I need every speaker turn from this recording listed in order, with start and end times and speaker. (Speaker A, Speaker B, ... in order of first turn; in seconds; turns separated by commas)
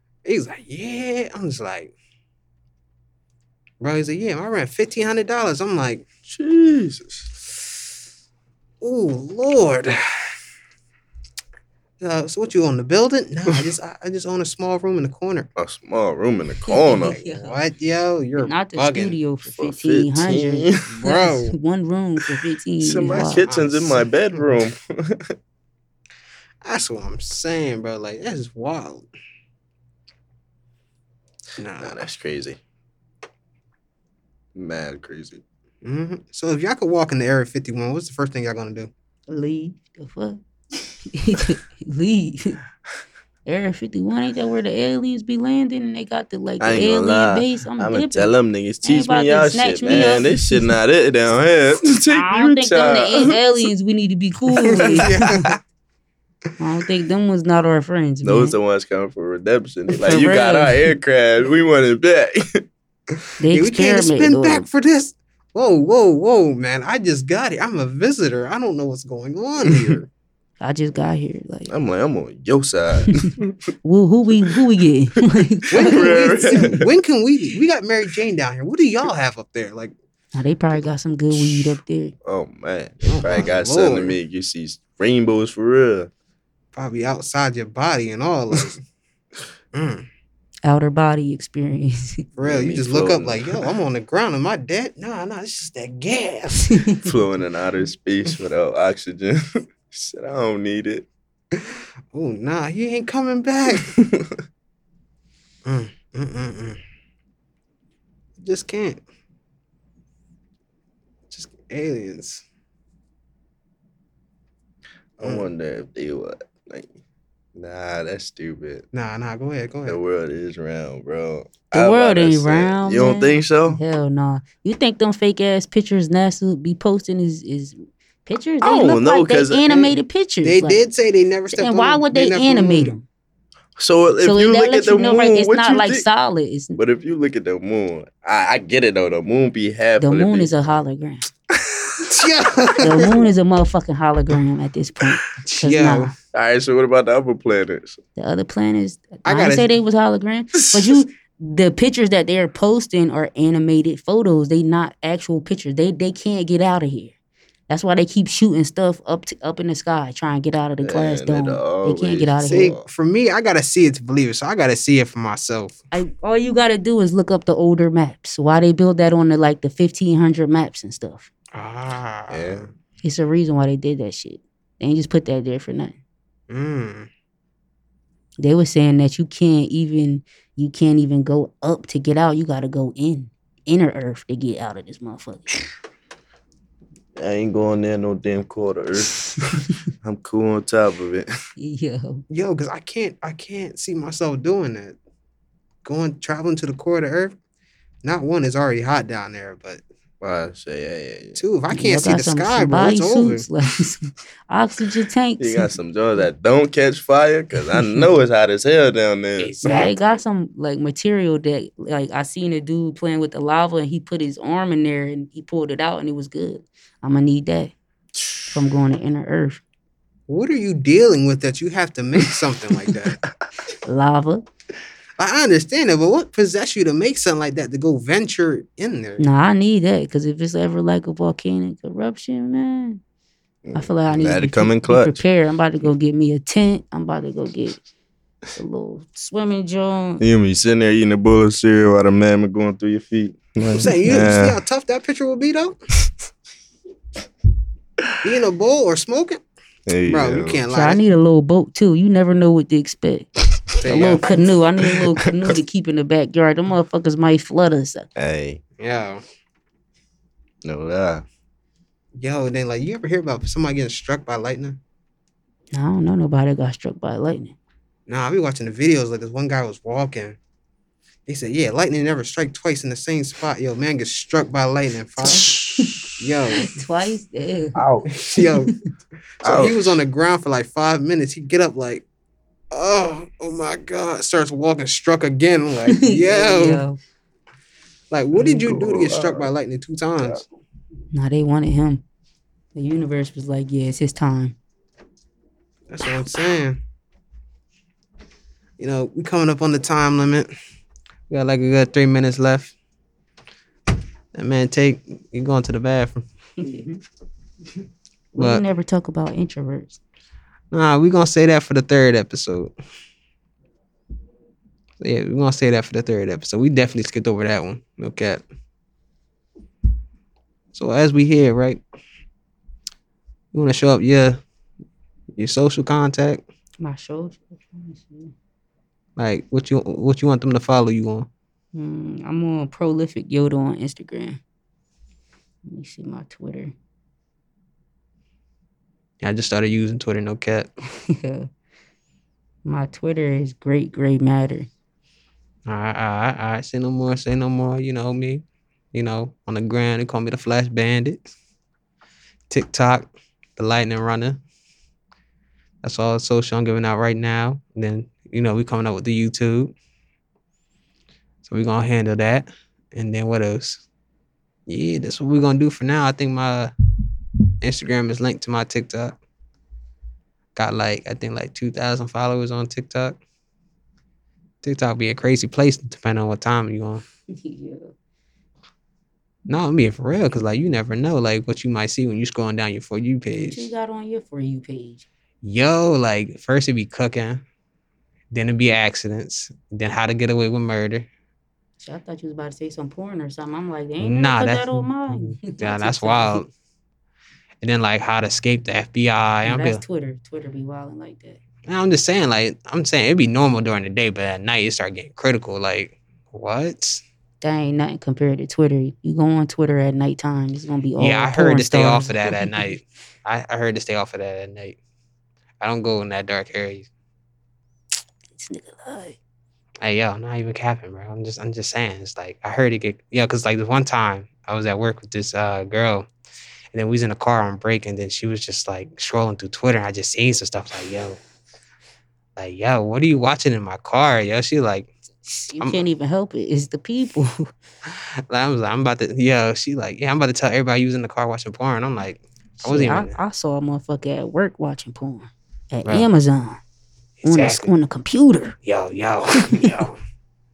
Speaker A: 0.2-1.9, Speaker A: 3.8-6.0, Speaker B: 6.3-7.3, Speaker A: 8.8-9.9, Speaker A: 12.0-15.5, Speaker B: 15.6-17.2, Speaker C: 16.7-17.6, Speaker A: 17.2-19.2, Speaker C: 18.4-23.5, Speaker B: 19.6-20.8, Speaker A: 20.9-21.6, Speaker B: 22.8-25.3, Speaker A: 23.0-24.5, Speaker A: 26.6-29.1, Speaker A: 31.6-31.9, Speaker B: 31.8-32.6, Speaker B: 34.5-35.4, Speaker A: 35.8-38.9, Speaker C: 39.3-40.4, Speaker C: 41.1-42.6, Speaker C: 43.5-50.6, Speaker B: 46.6-53.6, Speaker C: 52.1-55.5, Speaker A: 54.7-55.5, Speaker B: 54.9-55.5, Speaker C: 56.6-58.5, Speaker B: 58.2-62.6, Speaker C: 60.0-60.9, Speaker C: 63.4-64.7, Speaker A: 63.5-70.1, Speaker B: 69.7-70.0, Speaker C: 70.6-71.7, Speaker B: 71.7-73.5, Speaker C: 73.8-76.8, Speaker A: 75.7-79.9, Speaker B: 75.7-76.9, Speaker C: 80.3-82.1, Speaker B: 82.2-86.1, Speaker A: 83.1-84.2, Speaker A: 86.7-88.8, Speaker A: 89.7-90.0, Speaker C: 90.6-92.3, Speaker A: 92.3-96.8, Speaker B: 92.4-93.7, Speaker C: 96.7-97.0, Speaker B: 97.0-101.1, Speaker A: 101.5-103.9, Speaker B: 103.7-104.4, Speaker A: 105.6-106.8, Speaker A: 108.4-109.0, Speaker A: 111.3-112.4, Speaker B: 115.2-117.0, Speaker A: 115.2-115.5, Speaker B: 117.5-118.8, Speaker A: 118.9-120.0, Speaker B: 119.8-123.8, Speaker C: 121.7-130.8, Speaker B: 128.6-129.9, Speaker A: 130.4-132.9, Speaker C: 131.5-133.0, Speaker B: 133.8-136.1, Speaker C: 134.2-136.8, Speaker B: 136.8-140.5, Speaker C: 140.0-141.3, Speaker B: 141.6-141.9, Speaker A: 142.0-143.3, Speaker C: 142.8-146.1, Speaker A: 145.4-146.1, Speaker B: 146.3-148.0, Speaker C: 148.2-157.1, Speaker A: 149.2-149.8, Speaker C: 157.7-162.7, Speaker B: 160.8-162.8, Speaker A: 162.5-165.8, Speaker C: 165.9-171.3, Speaker A: 171.5-172.6, Speaker B: 172.3-172.7, Speaker C: 173.0-175.9, Speaker A: 176.5-177.1, Speaker C: 178.4-185.5, Speaker B: 187.2-191.3, Speaker C: 191.6-192.2, Speaker A: 192.3-195.0, Speaker A: 195.8-197.3, Speaker A: 198.0-199.8, Speaker B: 200.2-201.4, Speaker A: 201.3-203.4, Speaker C: 201.7-205.7, Speaker B: 205.4-209.5, Speaker A: 209.4-210.0, Speaker C: 209.6-217.7, Speaker C: 218.5-219.6, Speaker A: 220.3-223.2, Speaker C: 223.8-224.4, Speaker A: 225.2-229.2, Speaker C: 229.2-233.0, Speaker B: 233.6-235.2, Speaker C: 233.7-237.8, Speaker C: 238.6-240.2, Speaker B: 240.2-244.6, Speaker C: 243.6-244.2, Speaker A: 243.7-245.8, Speaker A: 248.2-249.4, Speaker B: 249.9-250.6, Speaker A: 250.1-251.0, Speaker C: 250.7-253.3, Speaker A: 253.8-254.3, Speaker C: 253.8-258.1, Speaker B: 253.9-254.2, Speaker B: 258.1-258.6, Speaker A: 258.8-259.2, Speaker B: 260.6-261.2, Speaker A: 262.1-264.8, Speaker C: 265.7-267.6, Speaker A: 268.1-270.4, Speaker A: 271.2-275.6, Speaker C: 275.2-277.8, Speaker A: 276.2-276.7, Speaker B: 277.7-278.1, Speaker A: 278.1-278.7, Speaker C: 278.4-278.7, Speaker A: 279.4-282.0, Speaker B: 279.4-280.0, Speaker A: 282.7-286.8, Speaker C: 285.9-287.0, Speaker A: 288.1-290.4, Speaker B: 288.3-289.5, Speaker C: 291.1-292.0, Speaker C: 292.7-294.6, Speaker A: 295.9-296.8, Speaker A: 298.8-300.5, Speaker A: 301.3-302.7, Speaker A: 304.3-306.2, Speaker C: 306.6-307.0, Speaker A: 308.3-308.6, Speaker C: 308.4-310.0, Speaker A: 310.7-312.7, Speaker A: 315.0-318.4, Speaker A: 320.7-321.8, Speaker A: 323.5-324.4, Speaker A: 325.4-326.4, Speaker C: 326.8-328.3, Speaker A: 329.2-331.3, Speaker C: 331.7-334.4, Speaker C: 335.6-336.7, Speaker A: 339.2-340.7, Speaker C: 341.1-341.5, Speaker C: 342.6-344.7, Speaker A: 345.6-351.2, Speaker A: 352.5-354.4, Speaker A: 355.8-359.7, Speaker A: 361.4-363.8, Speaker A: 364.7-366.7, Speaker A: 367.6-369.2, Speaker A: 370.6-373.2, Speaker A: 374.6-377.0, Speaker C: 377.3-377.9, Speaker A: 379.5-383.7, Speaker C: 383.3-385.1, Speaker A: 385.4-387.4, Speaker A: 388.3-391.1, Speaker C: 391.8-396.4, Speaker A: 394.0-396.5, Speaker A: 397.6-399.8, Speaker C: 399.4-401.4, Speaker A: 401.7-407.0, Speaker C: 407.4-412.6, Speaker A: 411.0-414.8, Speaker A: 415.6-416.9, Speaker C: 418.4-419.2, Speaker A: 419.8-426.1, Speaker A: 426.7-431.2, Speaker A: 432.4-434.9, Speaker C: 435.2-437.5, Speaker A: 435.6-435.9, Speaker A: 438.3-443.2, Speaker C: 442.6-446.6, Speaker A: 447.2-447.7, Speaker C: 447.2-448.6, Speaker A: 448.6-450.0